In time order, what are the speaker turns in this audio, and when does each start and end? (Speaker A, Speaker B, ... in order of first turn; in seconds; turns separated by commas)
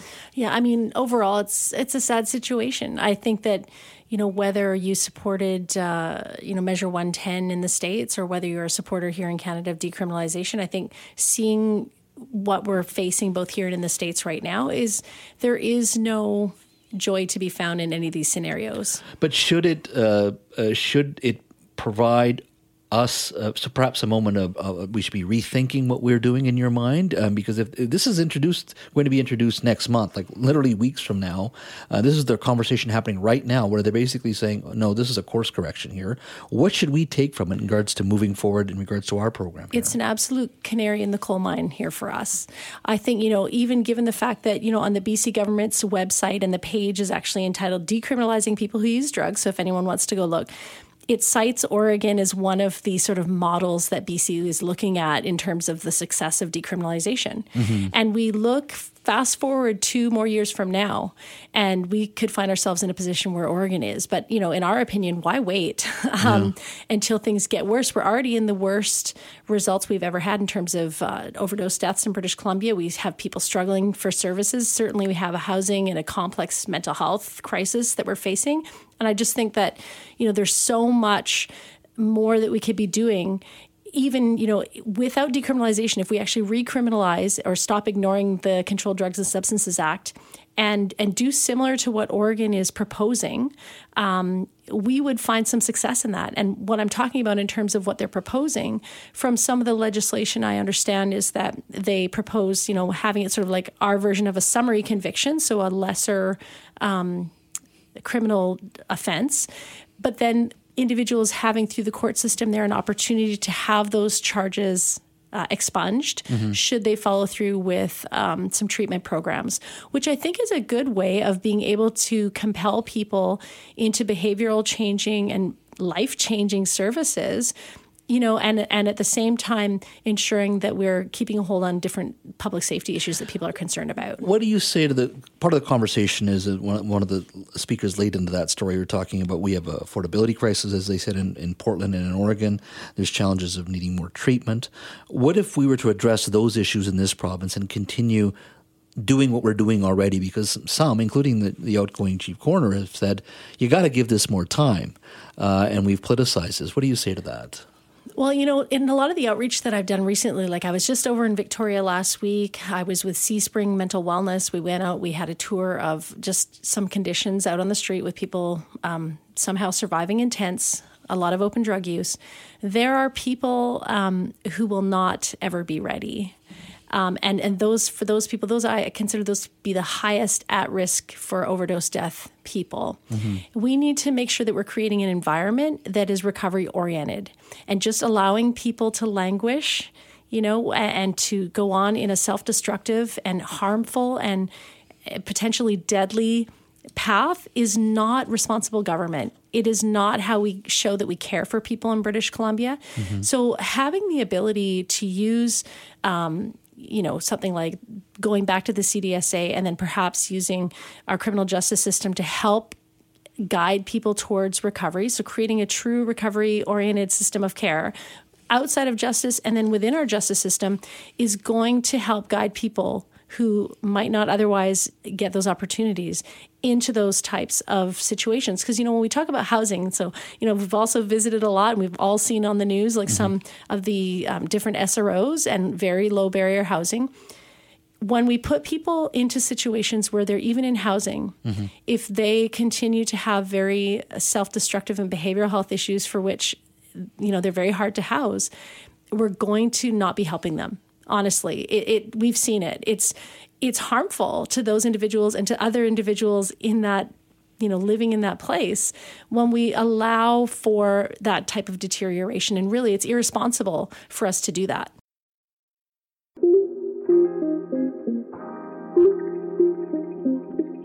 Speaker A: 0.3-19.0, Speaker B: 19.2-39.9, Speaker A: 39.7-50.5, Speaker A: 51.1-83.4, Speaker B: 57.5-57.9, Speaker B: 66.2-66.5, Speaker A: 83.9-107.3, Speaker A: 108.0-127.5, Speaker B: 116.3-116.6, Speaker A: 128.1-134.2, Speaker B: 134.2-148.3, Speaker B: 149.0-157.6, Speaker A: 158.2-176.3, Speaker A: 176.9-183.0, Speaker B: 183.1-183.4, Speaker A: 183.5-194.5, Speaker A: 195.1-212.8, Speaker B: 203.0-203.3, Speaker A: 213.4-217.9, Speaker A: 218.5-237.1, Speaker B: 233.1-233.3, Speaker A: 238.0-241.3, Speaker B: 241.4-241.7, Speaker A: 241.9-248.5, Speaker A: 249.1-264.9